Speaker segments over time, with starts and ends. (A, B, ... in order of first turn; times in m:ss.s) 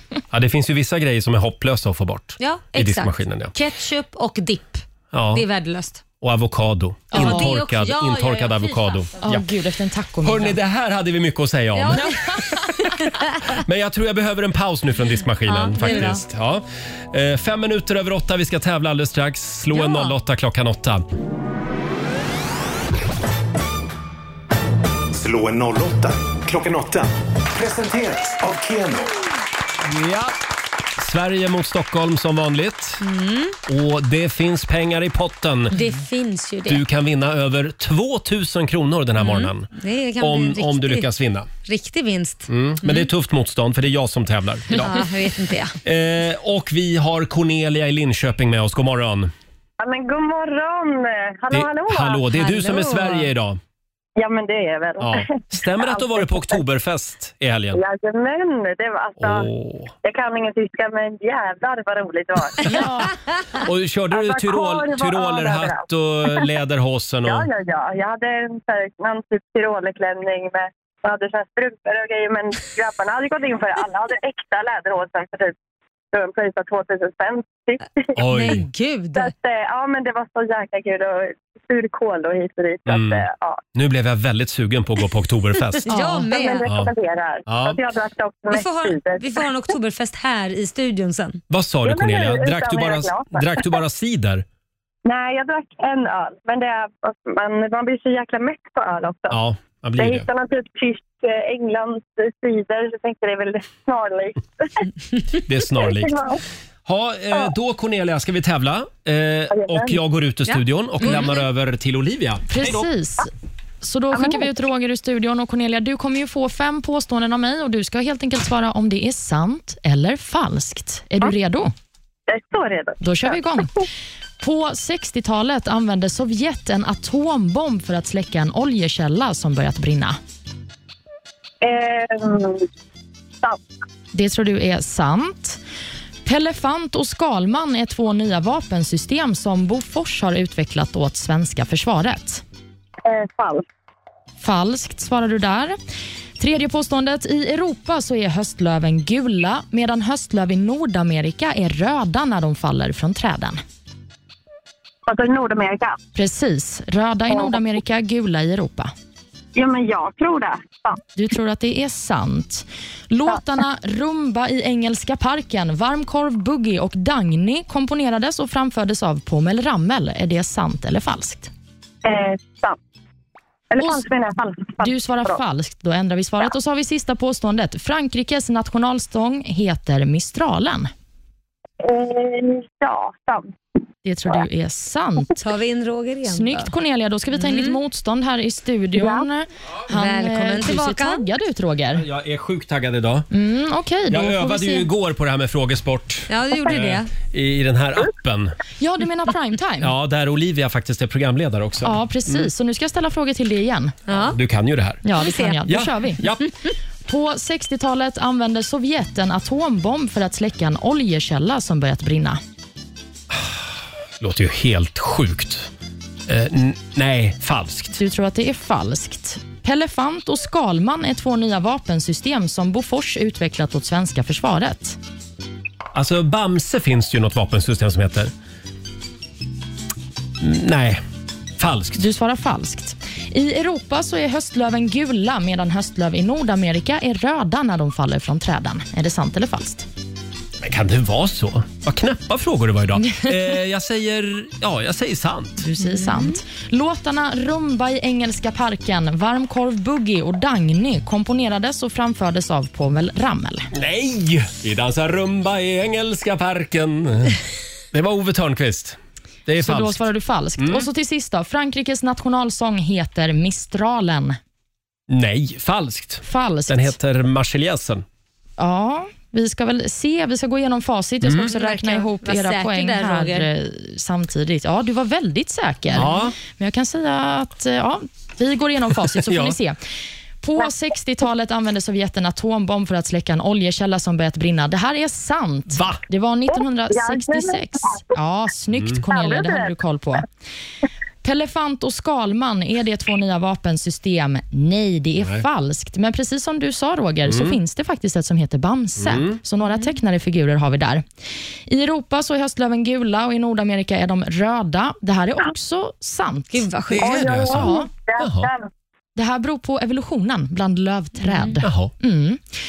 0:00.3-0:03.5 A
0:02.4-0:06.0 B
0:05.1-0:05.4 A
0:06.2-0:09.5 A
0:07.1-0:07.5 C
0:07.1-0:09.2 B
0:09.2-0:10.6 C
0:10.2-0:12.4 A
0:11.7-0:13.3 B
0:12.0-0:12.4 C
0:13.5-0:21.0 A
0:15.5-0:16.2 B
0:19.7-0:20.1 B
0:25.1-0:29.1 D
0:29.8-0:30.3 A
0:31.0-0:33.0 A
0:33.0-0:33.6 B
0:33.7-0:35.8 A
0:35.7-0:36.8 B
0:36.7-0:41.5 A
0:39.2-0:41.1 B
0:41.6-0:43.1 B
0:42.5-0:45.0 A
0:44.8-0:45.8 B
0:45.8-0:49.3 A
0:49.8-0:52.3 E
0:51.5-0:53.6 A
0:52.3-0:53.3 B
0:54.2-0:56.6 E
0:55.0-0:57.8 A
0:57.7-0:59.5 E
0:59.2-0:59.9 A
1:00.0-1:02.9 E
1:02.6-1:03.1 C
1:03.6-1:07.5 A
1:04.1-1:06.4 E
1:07.2-1:15.6 E
1:16.1-1:18.2 E
1:18.2-1:18.6 A
1:18.3-1:19.3 B
1:19.1-1:23.6 E
1:22.9-1:26.9 A
1:25.9-1:26.6 B
1:26.3-1:29.5 E
1:27.5-1:27.8 A
1:28.5-1:31.4 B
1:31.5-1:34.4 A
1:31.8-1:33.7 E
1:35.0-1:39.4 E
1:39.3-1:40.3 A
1:40.0-1:44.8 E
1:45.3-1:46.2 A
1:45.7-1:46.4 E
1:46.8-1:52.6 A
1:49.5-1:50.0 E
1:50.5-1:51.4 B
1:52.5-1:53.3 C
1:53.8-2:01.7 C
1:54.1-1:54.4 E
2:02.3-2:03.4 E
2:03.0-2:03.7 C
2:04.4-2:10.2 C
2:11.6-2:12.6 E
2:14.1-2:15.6 C
2:16.2-2:22.4 C
2:23.0-2:23.6 E
2:24.4-2:25.8 C
2:26.4-2:33.6 C
2:35.0-2:36.0 E
2:36.1-2:38.9 C
2:39.5-2:41.0 E
2:41.1-2:51.5 C
2:52.0-2:52.8 E
2:53.7-2:55.4 E
2:53.8-2:54.0 C
2:54.8-3:00.9 C
3:01.8-3:03.5 E
3:04.0-3:05.4 C
3:05.4-3:06.7 B
3:06.3-3:12.0 C
3:07.3-3:07.8 B
3:09.0-3:09.3 E
3:09.9-3:11.2 B
3:11.9-3:13.3 A
3:13.3-3:14.9 C
3:14.1-3:18.5 A
3:16.3-3:17.1 B
3:18.8-3:19.9 C
3:19.8-3:22.5 A
3:21.8-3:24.0 C
3:24.0-3:24.4 B
3:24.1-3:25.0 A
3:25.0-3:26.2 C
3:25.2-3:25.6 B
3:25.6-3:26.4 A
3:27.1-3:32.4 C
3:33.3-3:35.7 A
3:36.3-3:37.9 A
3:37.9-3:45.0 C
3:45.9-3:48.3 A
3:50.4-3:51.0 A
3:51.6-3:52.0 A
3:52.0-3:59.8 C
4:00.6-4:05.7 A
4:05.6-4:13.7 C
4:06.0-4:06.4 B
4:13.7-4:17.4 A
4:17.9-4:20.0 A
4:19.6-4:24.4 C
4:20.6-4:20.9 A
4:25.1-4:28.0 A
4:26.2-4:26.9 C
4:28.6-4:39.8 C
4:31.2-4:31.5 A
4:31.4-4:33.5 B
4:35.9-4:36.4 A
4:39.1-4:39.6 A
4:40.4-4:50.2 C
4:45.7-4:46.0 A
4:46.5-4:48.0 E
4:48.7-4:49.0 A
4:49.1-4:49.7 E
4:51.2-5:01.0 C
4:55.2-4:55.4 A
4:57.2-4:57.6 A
4:59.0-4:59.4 A
5:01.7-5:06.7 C
5:06.5-5:07.2 B
5:06.9-5:08.5 A
5:07.0-5:08.7 E
5:07.3-5:07.9 C
5:09.2-5:12.4 C
5:11.2-5:11.5 B
5:11.6-5:11.9 A